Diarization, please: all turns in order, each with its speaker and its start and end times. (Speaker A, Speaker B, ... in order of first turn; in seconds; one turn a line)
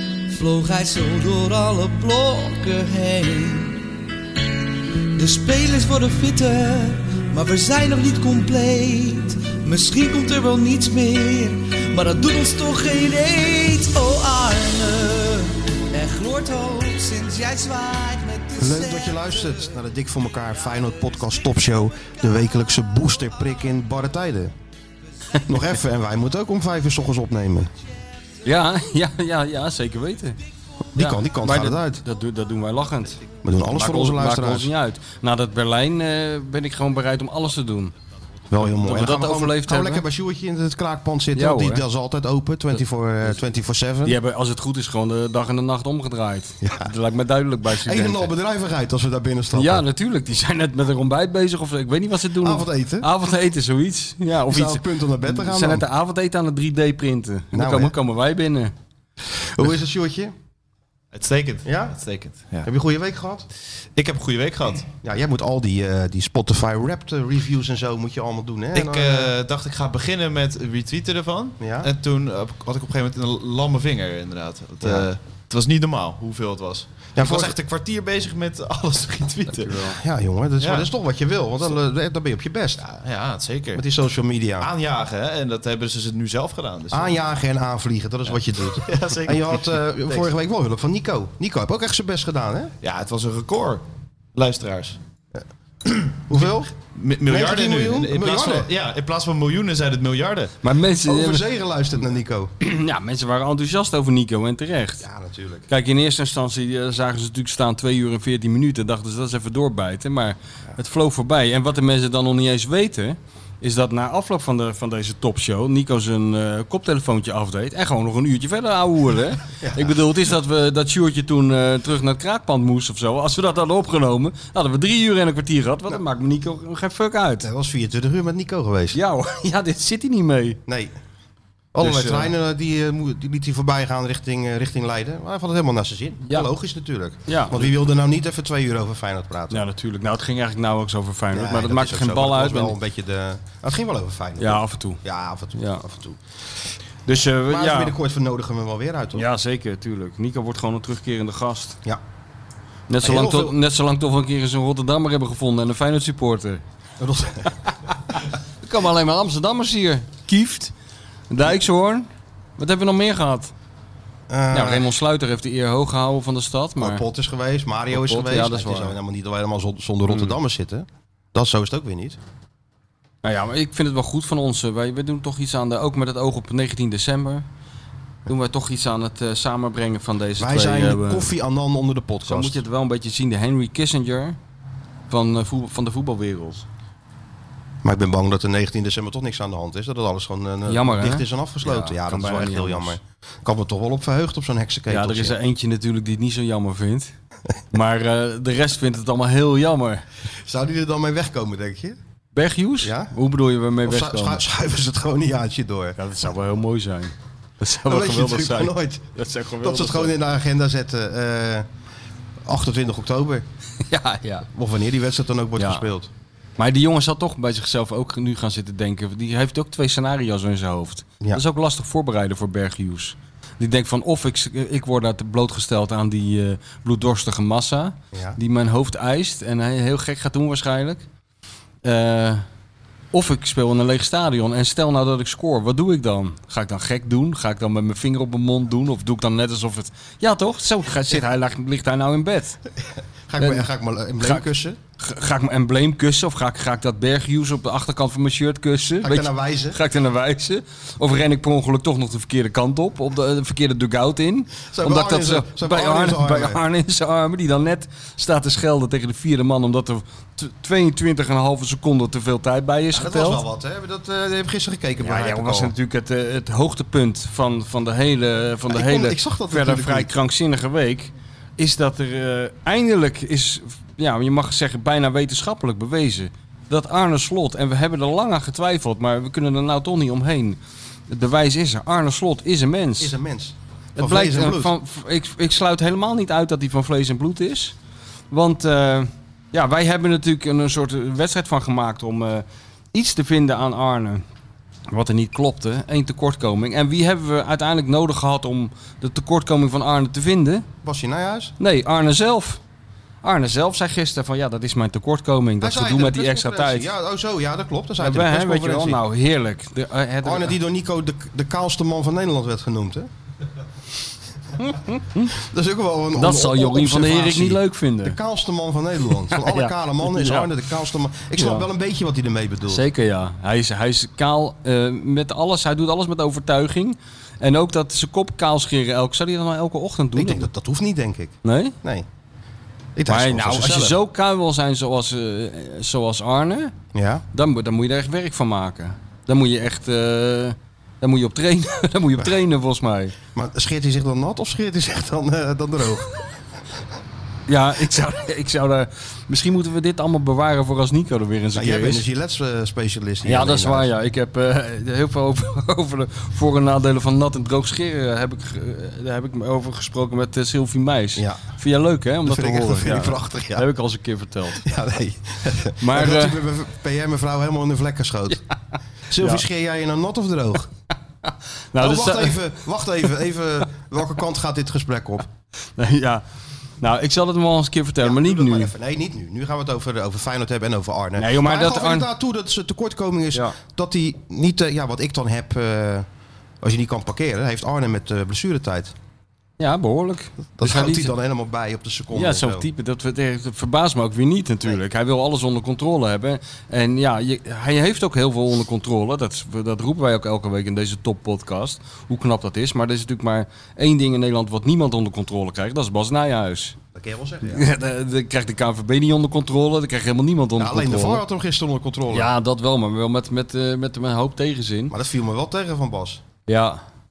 Speaker A: 0.3-3.9
Speaker A: 5.2-19.8
Speaker B: 18.6-24.5
Speaker B: 25.5-27.7
Speaker C: 28.4-30.4
Speaker B: 30.9-32.0
Speaker C: 31.0-37.9
Speaker B: 33.4-34.7
Speaker B: 38.5-44.2
Speaker C: 38.8-40.0
Speaker C: 41.4-41.8
Speaker C: 44.0-48.3
Speaker B: 46.6-46.9
Speaker B: 47.7-49.9
Speaker C: 49.5-58.7
Speaker B: 52.4-53.1
Speaker B: 54.5-55.9
Speaker B: 57.5-58.0
Speaker B: 59.5-60.4
Speaker D: 61.1-62.7
Speaker B: 61.6-62.0
Speaker B: 62.6-63.5
Speaker D: 64.0-64.9
Speaker B: 65.0-69.3
Speaker D: 68.7-79.8
Speaker B: 71.6-71.9
Speaker B: 74.8-75.1
Speaker B: 77.2-77.5
Speaker C: 79.5-80.0
Speaker B: 80.0-82.8
Speaker D: 80.6-80.9
Speaker D: 82.8-83.8
Speaker B: 83.8-84.7
Speaker D: 84.6-87.2
Speaker B: 86.9-92.7
Speaker D: 88.8-90.3
Speaker D: 92.8-93.8
Speaker D: 94.3-95.0
Speaker D: 95.8-100.5
Speaker B: 96.3-96.7
Speaker B: 97.3-98.7
Speaker C: 100.6-101.5
Speaker B: 101.0-102.5
Speaker C: 102.6-105.1
Speaker B: 105.0-105.7
Speaker C: 105.7-127.5
Speaker B: 119.6-120.0
Speaker B: 127.4-129.0
Speaker C: 128.9-130.6
Speaker B: 130.7-130.9
Speaker B: 131.7-139.6
Speaker C: 131.8-132.3
Speaker C: 136.3-136.5
Speaker C: 137.3-137.7
Speaker C: 139.5-142.8
Speaker B: 141.3-146.2
Speaker C: 144.4-145.0
Speaker C: 145.6-145.8
Speaker C: 147.1-147.9
Speaker B: 147.4-149.3
Speaker C: 149.2-151.8
Speaker C: 152.9-156.6
Speaker B: 153.0-153.6
Speaker B: 157.0-157.6
Speaker C: 158.6-160.7
Speaker C: 161.3-163.5
Speaker B: 164.3-164.9
Speaker C: 164.5-167.0
Speaker B: 166.8-172.2
Speaker C: 167.9-169.0
Speaker C: 170.1-170.3
Speaker C: 173.2-177.4
Speaker C: 178.3-181.3
Speaker B: 180.4-182.6
Speaker C: 182.3-184.4
Speaker C: 185.1-186.7
Speaker B: 187.8-195.4
Speaker C: 190.7-193.0
Speaker C: 194.9-197.1
Speaker C: 197.7-200.1
Speaker B: 200.4-202.0
Speaker C: 202.3-204.4
Speaker B: 202.8-203.1
Speaker B: 203.8-206.0
Speaker C: 206.0-210.2
Speaker B: 207.8-211.7
Speaker B: 212.4-213.4
Speaker C: 213.9-214.5
Speaker B: 214.5-216.1
Speaker C: 215.6-215.8
Speaker C: 216.6-231.0
Speaker B: 228.1-228.4
Speaker C: 231.8-232.4
Speaker C: 233.1-242.6
Speaker B: 243.0-244.8
Speaker C: 245.0-263.4
Speaker B: 249.0-249.8
Speaker B: 254.7-256.6
Speaker B: 262.9-265.7
Speaker C: 265.0-283.1
Speaker B: 268.7-270.1
Speaker B: 283.0-284.7
Speaker C: 284.0-287.8
Speaker C: 288.3-294.2
Speaker C: 294.9-300.7
Speaker B: 300.8-301.5
Speaker C: 301.6-302.6
Speaker C: 303.2-306.9
Speaker B: 305.6-309.0
Speaker C: 308.0-310.6
Speaker B: 310.2-313.1
Speaker C: 314.6-315.3
Speaker B: 315.3-322.9
Speaker C: 316.2-318.2
Speaker C: 319.3-320.5
Speaker C: 321.4-321.6
Speaker C: 322.7-330.5
Speaker B: 330.2-332.1
Speaker C: 331.4-331.8
Speaker B: 333.0-334.0
Speaker C: 333.1-336.8
Speaker B: 336.9-337.2
Speaker C: 337.3-343.2
Speaker B: 343.3-346.1
Speaker C: 347.5-352.0
Speaker B: 351.6-353.9
Speaker C: 353.2-364.6
Speaker B: 361.2-361.4
Speaker B: 362.3-363.7
Speaker B: 364.6-368.4
Speaker C: 365.8-366.4
Speaker B: 369.1-370.7
Speaker C: 371.3-372.4
Speaker B: 371.8-375.3
Speaker C: 375.8-376.2
Speaker C: 376.8-378.7
Speaker B: 378.0-386.1
Speaker C: 381.2-382.1
Speaker B: 386.6-388.9
Speaker C: 389.6-391.1
Speaker B: 390.6-392.7
Speaker C: 392.1-406.8
Speaker B: 406.9-407.7
Speaker C: 407.5-411.2
Speaker B: 410.6-412.3
Speaker C: 412.1-414.9
Speaker B: 414.9-416.2
Speaker C: 416.5-416.8